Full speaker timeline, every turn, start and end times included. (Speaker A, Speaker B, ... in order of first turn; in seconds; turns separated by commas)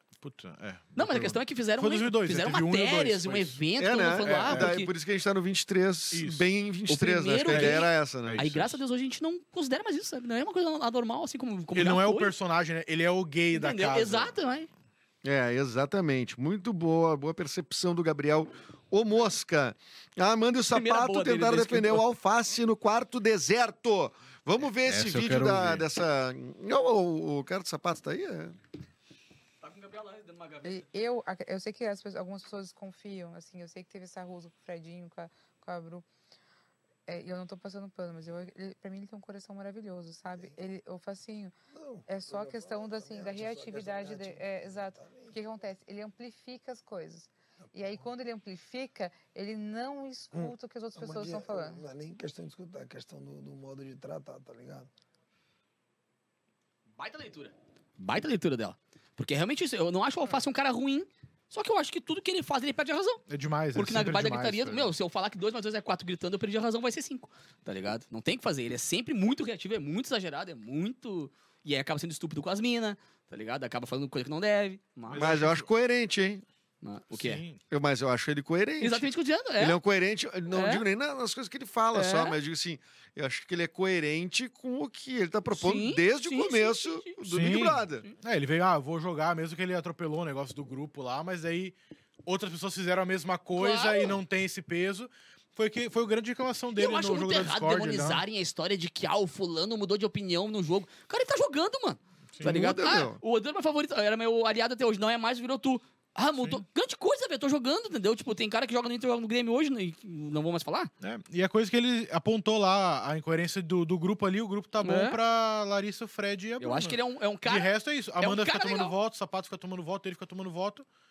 Speaker A: 0.2-3.6, Speaker B: 1.0-4.9, Speaker C: 3.8-8.5, Speaker A: 4.2-4.7, Speaker A: 6.1-6.5, Speaker B: 6.9-12.3, Speaker A: 7.5-8.8, Speaker A: 11.7-14.3, Speaker B: 13.5-14.7, Speaker C: 15.2-28.6, Speaker B: 20.7-22.1, Speaker A: 24.8-25.9, Speaker B: 29.6-30.9, Speaker D: 30.6-36.1, Speaker D: 37.1-41.5, Speaker E: 40.3-40.6, Speaker E: 41.7-45.4, Speaker D: 42.1-51.9, Speaker E: 47.6-48.1, Speaker E: 50.3-54.9, Speaker B: 57.0-63.2, Speaker A: 63.3-64.9, Speaker B: 63.8-75.3, Speaker A: 75.1-75.7, Speaker C: 75.2-76.4, Speaker B: 76.8-77.4, Speaker A: 77.1-77.6, Speaker C: 77.7-88.0, Speaker B: 78.8-79.8, Speaker B: 80.5-80.8, Speaker B: 81.9-82.4, Speaker B: 85.5-87.2, Speaker A: 87.3-98.2, Speaker B: 93.5-94.2, Speaker B: 96.8-110.9, Speaker A: 102.3-102.6, Speaker C: 102.4-103.2, Speaker A: 106.4-106.6, Speaker A: 111.0-120.9, Speaker B: 114.8-115.2, Speaker B: 116.6-118.9